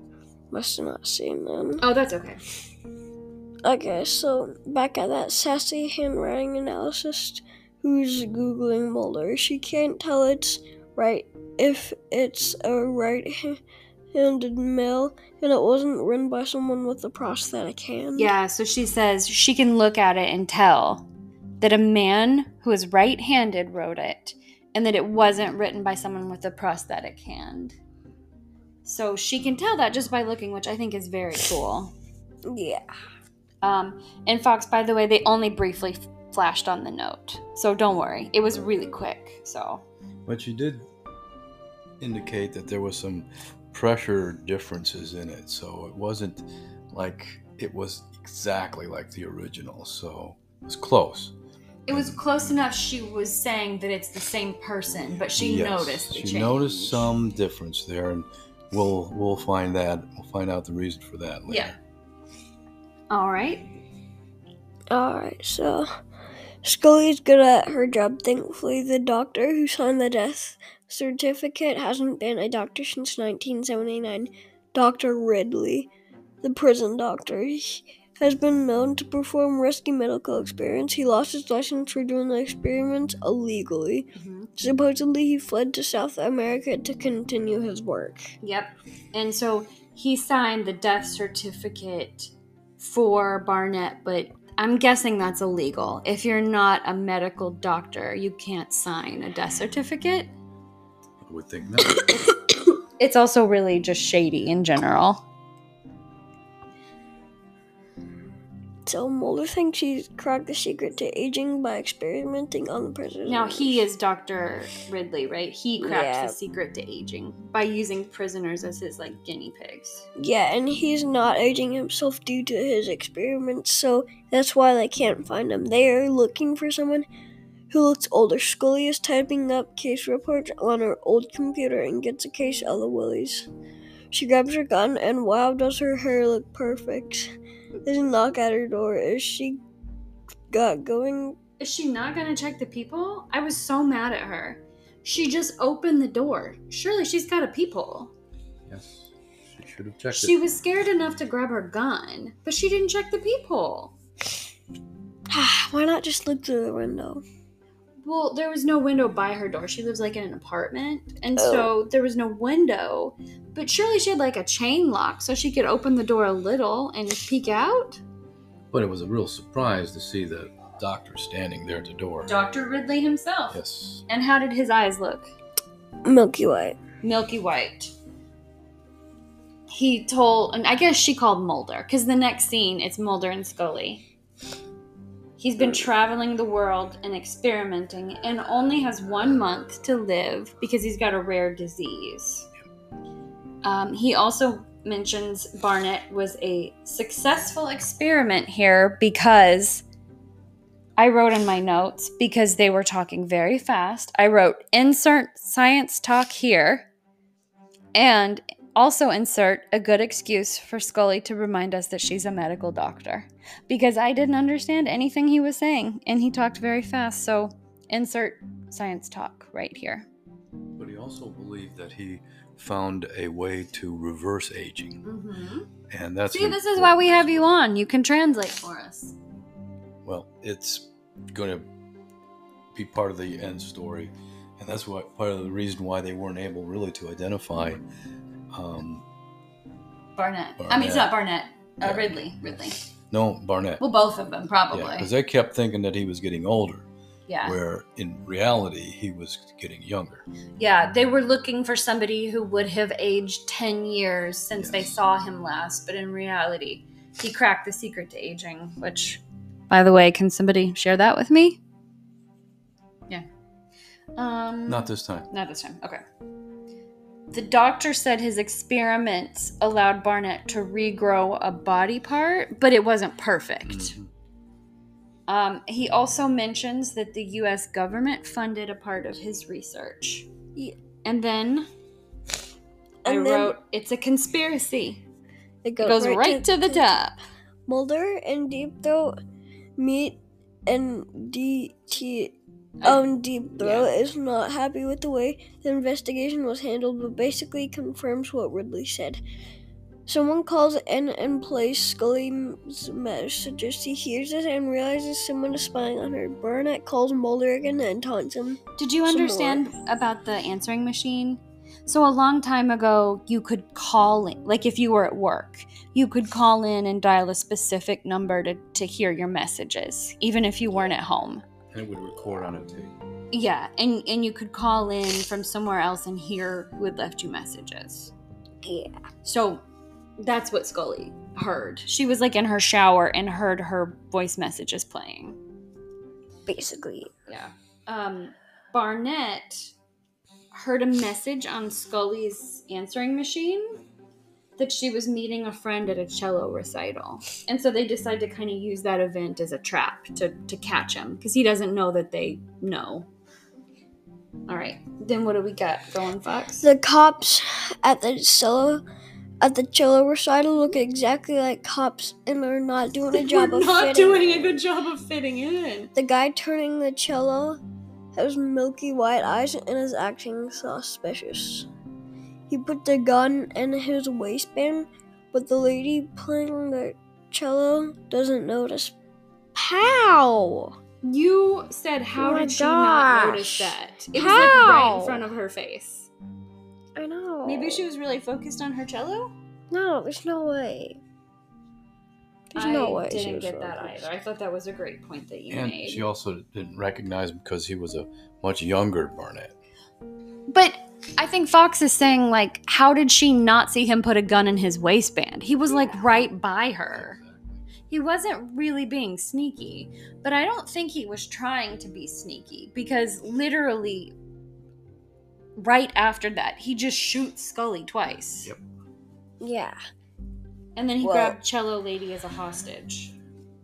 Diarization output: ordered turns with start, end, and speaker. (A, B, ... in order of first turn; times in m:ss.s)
0:00.5-0:01.8 A
0:01.8-0:02.4 B
0:03.6-0:13.6 A
0:14.1-0:18.3 A
0:18.2-0:21.1 B
0:21.6-0:27.8 B
0:28.8-0:31.9 B
0:32.5-0:32.9 A
0:33.6-0:39.8 B
0:40.3-0:40.9 C
0:42.0-0:51.3 C
0:51.9-0:57.1 B
0:51.9-0:52.3 C
0:55.4-1:01.8 C
1:01.5-1:01.7 B
1:03.1-1:03.7 B
1:04.9-1:05.9 A
1:06.6-1:15.9 A
1:16.4-1:28.3 A
1:24.2-1:24.5 B
1:28.4-1:40.3 B
1:41.2-1:42.3 C
1:43.0-1:45.2 B
1:48.9-1:53.8 A
1:53.3-2:00.1 B
1:55.8-1:56.4 A
2:00.2-2:07.1 A
2:07.7-2:13.5 A
2:14.1-2:19.6 A
2:20.5-2:21.4 A
2:21.6-2:28.1 B
2:28.7-2:30.4 C
2:30.1-2:33.9 B
2:35.3-2:37.2 A
2:38.0-2:48.0 B
2:41.4-2:41.7 A
2:48.7-2:52.3 C
2:52.3-2:55.3 B
2:53.5-2:54.0 C
2:56.0-2:56.8 A
2:57.0-2:57.9 B
2:59.7-3:04.0 B
3:05.4-3:12.5 B
3:05.6-3:05.9 A
3:13.6-3:19.8 B
3:21.0-3:26.9 B
3:28.0-3:40.1 B
3:40.8-3:45.0 C
3:45.0-3:45.7 B
3:45.9-3:47.5 C
3:46.3-3:49.2 B
3:50.0-3:51.7 C
3:52.7-3:57.8 C
3:58.5-3:59.0 C
4:00.2-4:02.8 B
4:00.6-4:01.1 C
4:01.8-4:03.8 C
4:03.8-4:05.1 B
4:04.7-4:06.9 C
4:07.3-4:07.6 B
4:07.4-4:10.2 C
4:10.6-4:21.6 B
4:14.6-4:15.0 C
4:24.2-4:26.0 B
4:24.7-4:25.3 C
4:27.3-4:34.0 B
4:33.6-4:34.1 C
4:35.3-4:40.3 B
4:41.0-4:41.7 B
4:43.0-4:43.5 A
4:43.1-4:45.0 B
4:45.6-4:47.1 A
4:45.8-4:47.2 B
4:47.7-4:49.2 A
4:49.8-4:59.2 A
4:52.8-4:53.9 B
5:00.1-5:09.8 A
5:08.8-5:21.4 B
5:21.7-5:22.9 C
5:23.3-5:28.1 B
5:28.6-5:29.0 A
5:29.2-5:29.6 B
5:30.2-5:35.4 B
5:36.5-5:37.1 A
5:37.3-5:39.7 B
5:40.5-5:43.8 B
5:44.6-5:53.1 B
5:54.5-5:56.7 B
5:56.6-5:58.8 A
5:59.4-6:04.6 A
6:03.1-6:05.9 B
6:06.0-6:07.6 A
6:08.2-6:11.7 A
6:12.5-6:19.0 A
6:19.6-6:20.8 A
6:21.0-6:26.1 B
6:22.2-6:25.2 A
6:27.0-6:27.8 A
6:27.4-6:29.3 B
6:29.7-6:31.0 A
6:32.5-6:34.1 A
6:32.6-6:36.0 B
6:35.5-6:39.5 C
6:40.5-6:47.2 B
6:45.7-6:47.6 C
6:47.9-6:54.1 B
6:55.6-6:58.5 B
6:59.4-6:59.8 A
7:00.8-7:03.1 B
7:01.0-7:01.4 A